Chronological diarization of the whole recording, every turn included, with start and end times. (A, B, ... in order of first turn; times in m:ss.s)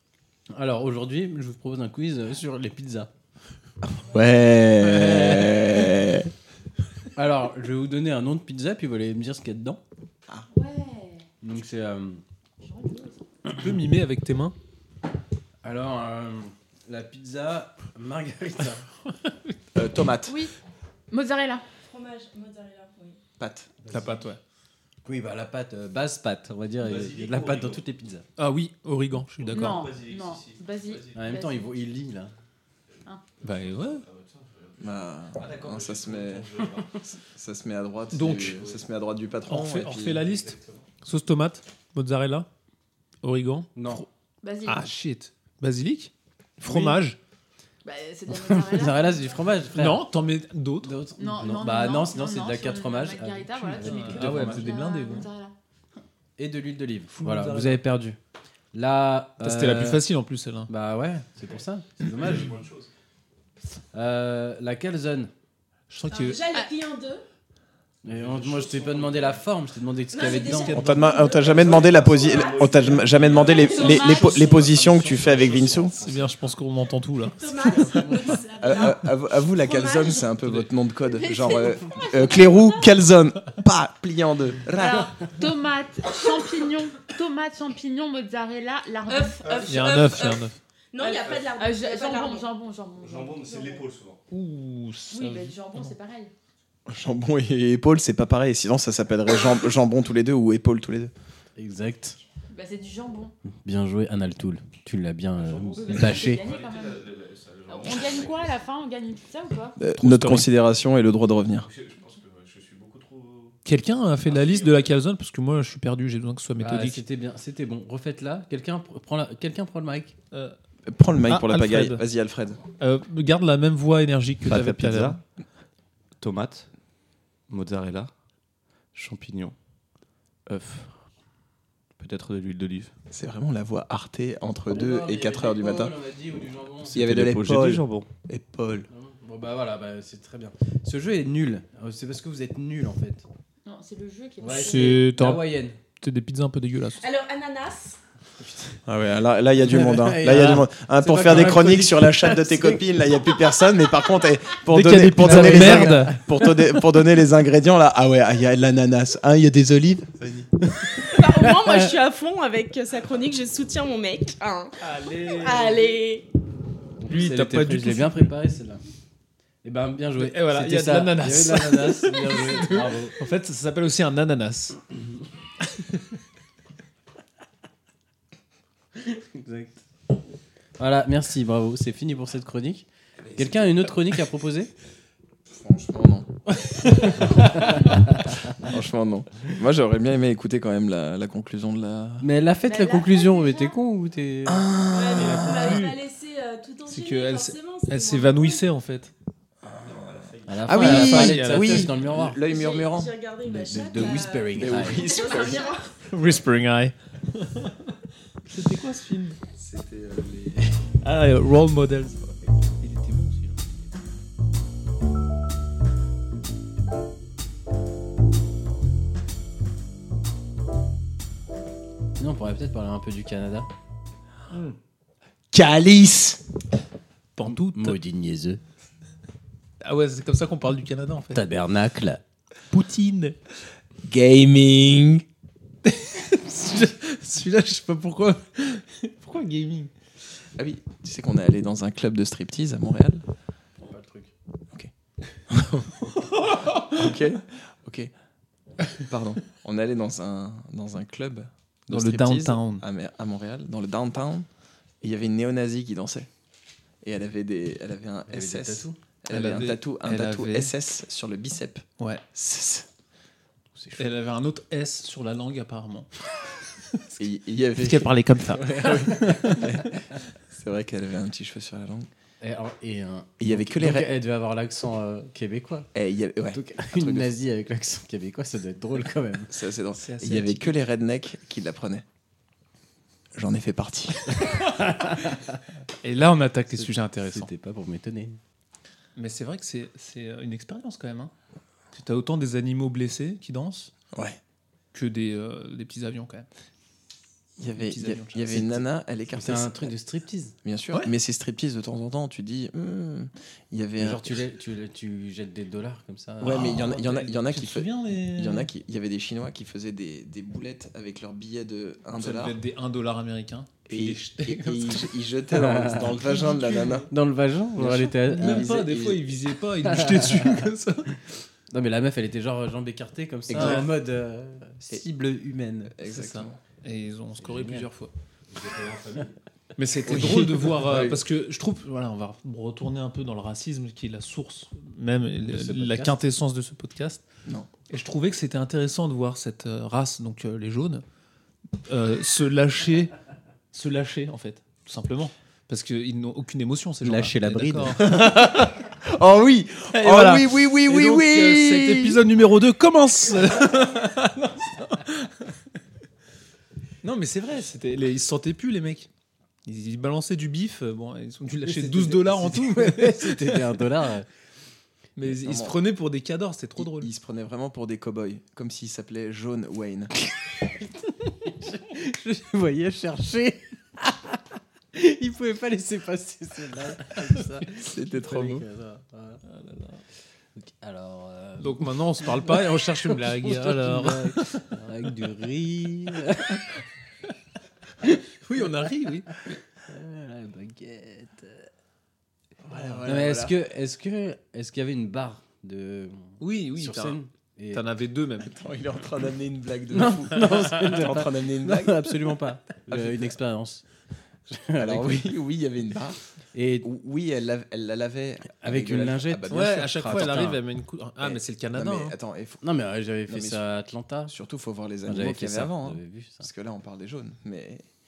0:00.5-0:03.1 A
0:03.9-0:06.3 B
0:04.8-0:05.6 A
0:07.2-0:09.8 A
0:10.5-0:11.3 C
0:11.4-0:12.2 A
0:12.6-0:13.2 C
0:13.5-0:14.6 D
0:15.6-0:18.8 A
0:19.8-0:20.4 B
0:20.2-0:20.5 C
0:21.1-0:21.6 C
0:21.9-0:23.2 E
0:23.4-0:23.7 B
0:23.9-0:24.4 D
0:25.0-0:28.2 A
0:26.8-0:27.8 F
0:28.4-0:29.9 D
0:29.4-0:31.4 F
0:29.5-0:31.7 C
0:31.1-0:32.3 A
0:33.4-0:37.1 F
0:33.4-0:34.0 D
0:34.8-0:40.3 B
0:38.1-0:38.6 D
0:38.4-0:38.8 F
0:39.5-0:42.5 D
0:40.2-0:40.9 F
0:43.2-0:44.1 D
0:43.8-0:44.0 A
0:44.4-0:44.9 C
0:44.7-0:47.2 D
0:47.8-0:49.7 C
0:48.3-0:50.1 A
0:49.7-0:51.0 D
0:50.8-0:54.7 A
0:51.2-0:55.5 C
0:53.7-0:55.3 D
0:56.4-0:58.2 A
0:57.1-0:57.8 D
0:58.7-1:00.0 A
0:59.4-1:00.7 D
1:00.7-1:02.6 A
1:01.5-1:02.9 F
1:03.9-1:05.3 A
1:05.9-1:06.4 D
1:06.1-1:07.2 E
1:08.0-1:10.8 A
1:08.1-1:09.4 F
1:10.1-1:12.8 E
1:10.2-1:11.3 D
1:10.7-1:16.0 B
1:11.3-1:16.4 F
1:13.3-1:14.7 C
1:16.0-1:17.5 D
1:17.4-1:20.3 E
1:18.6-1:25.2 B
1:21.1-1:22.7 C
1:24.7-1:29.7 C
1:29.1-1:32.5 E
1:29.4-1:30.1 F
1:29.7-1:30.6 D
1:31.0-1:33.8 C
1:31.2-1:31.5 F
1:33.0-1:34.2 F
1:34.3-1:35.9 D
1:35.1-1:36.3 C
1:36.9-1:41.1 B
1:41.6-1:42.2 A
1:42.5-1:43.3 C
1:43.6-1:46.4 A
1:45.4-1:48.6 F
1:45.7-1:47.1 C
1:47.7-1:49.8 C
1:49.8-1:51.7 B
1:49.9-1:50.5 D
1:51.6-1:53.6 F
1:53.6-1:57.0 D
1:54.3-1:54.9 F
1:56.6-2:00.2 A
2:00.9-2:02.6 B
2:01.3-2:02.0 D
2:02.8-2:05.2 D
2:04.4-2:05.2 F
2:06.2-2:06.7 F
2:07.5-2:08.1 F
2:08.9-2:09.6 F
2:10.5-2:11.0 F
2:12.0-2:12.9 F
2:13.1-2:16.0 B
2:14.7-2:17.0 A
2:16.9-2:18.9 B
2:16.9-2:18.1 F
2:18.9-2:23.3 A
2:23.6-2:25.1 C
2:24.4-2:25.8 A
2:24.5-2:27.0 D
2:27.0-2:28.0 E
2:28.9-2:40.5 B
2:29.6-2:32.8 A
2:34.7-2:36.2 D
2:35.2-2:36.2 A
2:41.0-2:46.3 E
2:44.8-2:46.0 D
2:47.0-2:48.8 A
2:47.1-2:48.3 D
2:49.6-2:53.2 A
2:50.2-2:54.8 D
2:59.0-2:59.8 A
3:00.8-3:04.7 A
3:03.3-3:03.9 B
3:05.5-3:06.3 B
3:08.5-3:12.3 B
3:12.2-3:14.7 A
3:12.7-3:13.7 E
3:14.5-3:15.8 B
3:14.9-3:18.7 E
3:15.1-3:16.0 D
3:16.9-3:19.1 D
3:19.7-3:20.1 B
3:19.8-3:20.9 F
3:20.5-3:22.4 A
3:20.7-3:23.1 B
3:20.7-3:22.0 D
3:22.4-3:26.0 E
3:23.4-3:25.1 A
3:24.5-3:25.8 B
3:25.0-3:25.9 C
3:26.0-3:27.8 D
3:28.5-3:29.4 D
3:29.6-3:30.6 B
3:31.0-3:32.2 D
3:32.8-3:33.7 D
3:42.2-3:43.7 A
3:44.5-3:44.8 D
3:45.5-3:46.4 B
3:47.4-3:48.0 D
3:47.4-3:48.6 A
3:49.8-3:51.4 D
3:51.3-3:52.2 A
3:52.7-3:53.4 D
3:54.0-3:55.2 B
3:55.9-3:59.9 D
4:00.6-4:03.2 B
4:03.8-4:04.3 A
4:05.5-4:06.1 B
4:06.4-4:06.8 D
4:06.7-4:08.1 B
4:09.0-4:14.5 B
4:11.9-4:12.8 D
4:15.0-4:16.3 B
4:17.0-4:22.9 B
4:18.3-4:19.0 A
4:19.3-4:20.7 D
4:23.8-4:24.0 A
4:24.0-4:26.1 D
4:27.2-4:28.2 B
4:27.8-4:29.8 D
4:28.5-4:30.0 A
4:28.8-4:29.8 B
4:30.5-4:32.1 B
4:32.4-4:35.9 A
4:33.4-4:34.1 B
4:35.9-4:37.4 B
4:36.5-4:39.5 A
4:39.5-4:42.0 B
4:40.0-4:40.8 D
4:43.4-4:44.5 B
4:45.1-4:45.3 A
4:46.0-4:47.5 D
4:46.7-4:48.4 A
4:49.2-4:51.3 D
4:51.9-4:53.9 D
4:54.1-4:54.4 B
4:54.9-4:56.5 D
4:57.6-5:00.0 B
4:57.8-4:58.8 D
4:59.3-5:00.6 A
5:00.6-5:04.4 B
5:04.0-5:06.8 A
5:06.4-5:12.6 B
5:06.4-5:08.7 D
5:12.1-5:15.1 D
5:13.9-5:17.1 B
5:15.6-5:16.1 A
5:16.2-5:17.1 D
5:17.1-5:18.9 A
5:17.8-5:19.3 B
5:18.0-5:21.2 D
5:19.9-5:20.4 A
5:21.7-5:25.9 A
5:23.5-5:23.9 B
5:23.5-5:23.9 D
5:26.0-5:26.6 B
5:26.0-5:28.1 D
5:27.4-5:27.9 A
5:28.5-5:29.4 F
5:29.8-5:37.2 D
5:30.1-5:31.2 B
5:35.4-5:36.2 A
5:37.9-5:41.0 D
5:41.9-5:43.1 D
5:43.7-5:48.7 D
5:47.0-5:48.1 A
5:48.0-5:52.2 B
5:49.9-5:55.5 D
5:57.0-5:59.1 D
5:59.6-6:03.8 D
6:01.6-6:04.3 A
6:05.2-6:07.1 D
6:05.2-6:05.8 B
6:06.8-6:10.1 B
6:11.4-6:14.4 A
6:14.9-6:19.4 A
6:17.8-6:18.6 B
6:19.5-6:20.0 D
6:20.6-6:26.6 A
6:21.6-6:24.7 D
6:28.4-6:29.4 D
6:29.9-6:31.7 A
6:32.6-6:33.6 B
6:33.1-6:37.8 A
6:36.4-6:38.5 D
6:38.4-6:42.3 B
6:39.9-6:43.8 A
6:42.9-6:43.3 B
6:44.5-6:45.3 A
6:44.8-6:46.2 B
6:46.5-6:46.9 A
6:46.8-6:50.3 B
6:48.6-6:50.6 A
6:49.5-6:52.2 D
6:51.2-6:52.7 B
6:52.6-6:54.3 A
6:53.3-6:53.7 B
6:54.3-6:57.9 B
6:55.1-6:56.5 A